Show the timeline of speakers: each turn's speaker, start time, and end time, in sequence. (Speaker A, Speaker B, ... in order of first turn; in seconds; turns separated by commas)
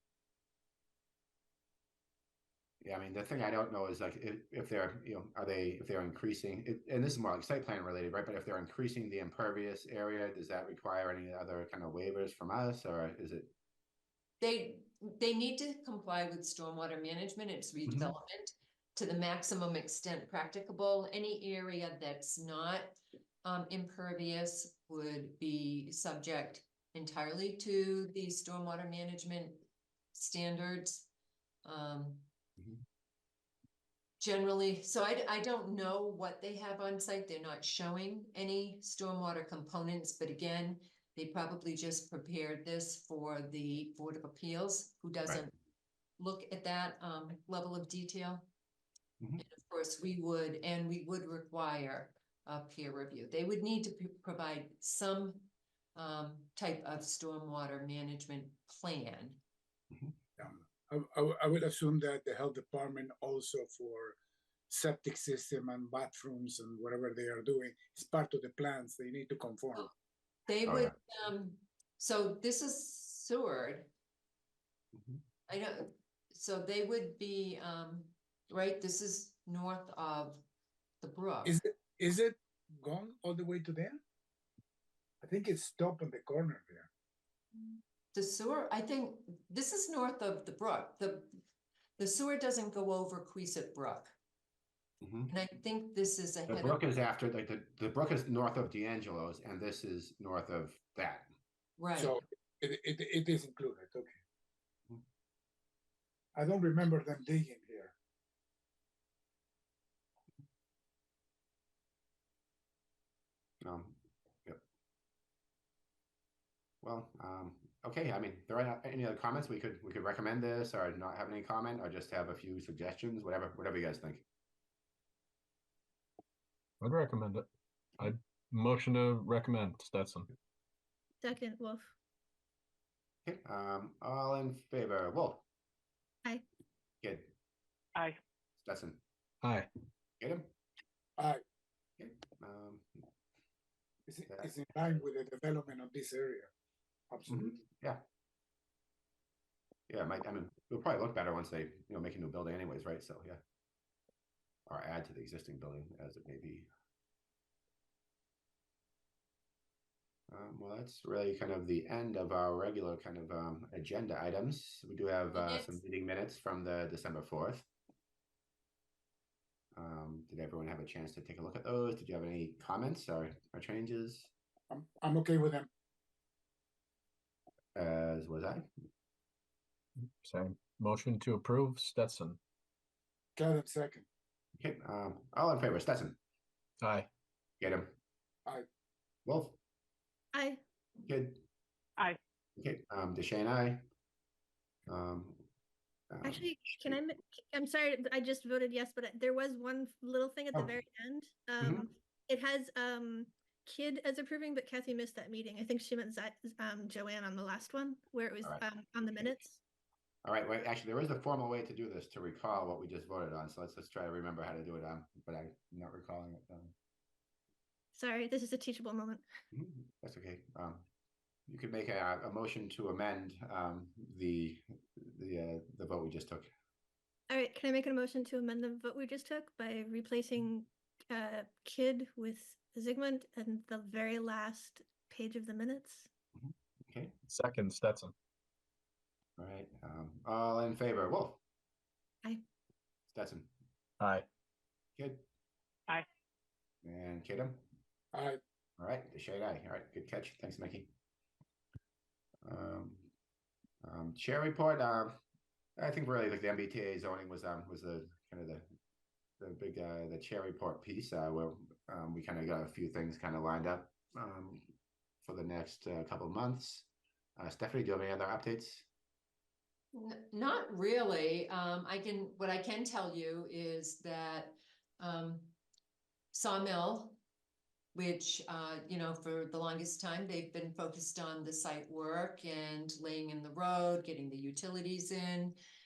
Speaker A: 2.8-13.5, Speaker B: 14.4-31.1, Speaker A: 17.9-18.1, Speaker B: 31.6-32.3, Speaker B: 34.2-45.5, Speaker B: 46.2-48.5, Speaker B: 49.4-59.4, Speaker C: 60.4-64.2, Speaker C: 64.7-69.9, Speaker B: 70.5-73.9, Speaker A: 70.7-71.0, Speaker A: 75.0-75.2, Speaker B: 75.5-80.4, Speaker B: 81.0-81.6, Speaker C: 81.4-84.0, Speaker C: 85.2-86.9, Speaker B: 88.1-91.4, Speaker B: 92.0-94.2, Speaker A: 95.0-95.3, Speaker B: 95.3-96.8, Speaker A: 96.5-101.3, Speaker B: 101.8-102.2, Speaker C: 102.0-104.2, Speaker C: 106.3-107.9, Speaker A: 113.6-114.6, Speaker A: 116.8-124.2, Speaker D: 126.8-127.5, Speaker D: 128.0-130.3, Speaker E: 131.2-131.9, Speaker A: 133.2-135.5, Speaker A: 137.0-137.3, Speaker A: 138.6-139.0, Speaker D: 139.4-139.7, Speaker A: 140.2-140.5, Speaker C: 141.2-141.4, Speaker A: 142.0-143.1, Speaker C: 144.1-146.5, Speaker A: 144.3-145.0, Speaker C: 147.1-147.6, Speaker A: 147.3-148.0, Speaker A: 149.9-153.4, Speaker A: 154.7-156.7, Speaker A: 160.3-167.7, Speaker B: 165.3-165.8, Speaker A: 169.8-174.3, Speaker C: 174.7-175.7, Speaker A: 177.8-178.7, Speaker D: 180.0-182.4, Speaker C: 183.4-184.1, Speaker A: 184.6-186.2, Speaker D: 186.8-187.1, Speaker A: 187.6-187.9, Speaker A: 189.3-189.6, Speaker E: 190.3-190.6, Speaker A: 191.1-191.4, Speaker A: 192.6-193.8, Speaker A: 194.9-195.5, Speaker A: 196.1-197.0, Speaker E: 196.2-209.6, Speaker A: 200.5-200.8, Speaker A: 201.6-201.9, Speaker A: 210.2-216.7, Speaker E: 217.9-219.2, Speaker A: 219.5-220.9, Speaker A: 221.5-226.5, Speaker E: 227.3-236.1, Speaker A: 236.4-237.1, Speaker D: 237.3-238.1, Speaker A: 239.4-241.4, Speaker A: 243.1-243.5, Speaker D: 244.0-244.3, Speaker A: 245.0-245.2, Speaker A: 246.8-247.7, Speaker C: 248.1-248.4, Speaker A: 248.8-250.9, Speaker A: 252.4-253.1, Speaker A: 253.8-255.2, Speaker A: 255.8-258.7, Speaker A: 259.4-268.9, Speaker B: 269.9-275.6, Speaker B: 276.3-277.2, Speaker B: 277.9-285.6